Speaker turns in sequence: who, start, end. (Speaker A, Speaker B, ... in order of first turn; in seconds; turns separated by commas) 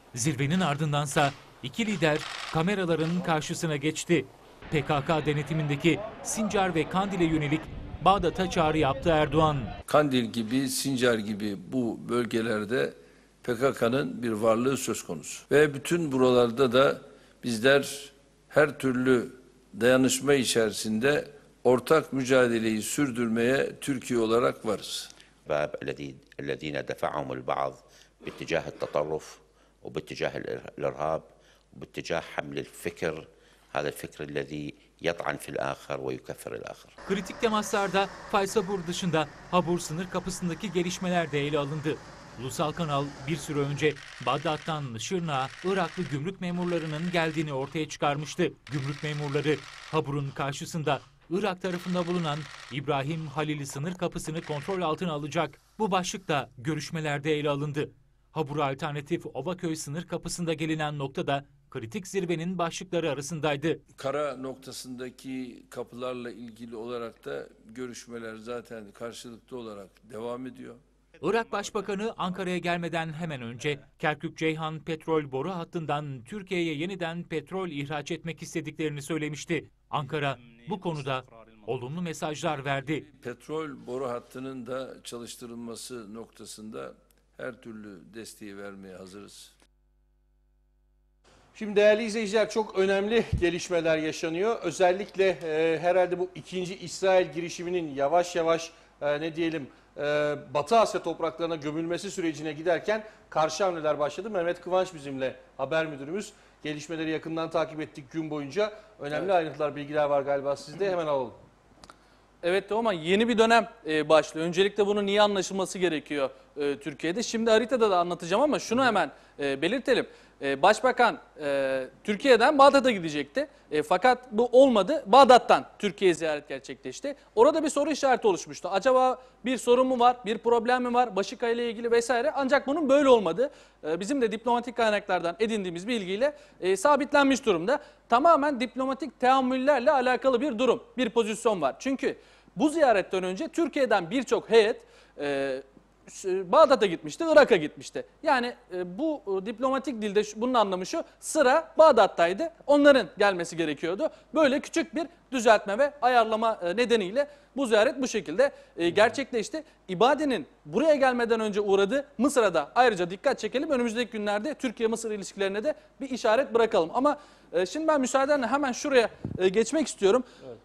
Speaker A: 0.1-9.7, Speaker B: 9.9-25.1, Speaker C: 25.5-36.9, Speaker A: 37.0-63.8, Speaker B: 64.0-70.8, Speaker A: 71.2-83.1, Speaker B: 83.2-89.5, Speaker D: 91.5-111.4, Speaker E: 112.4-170.3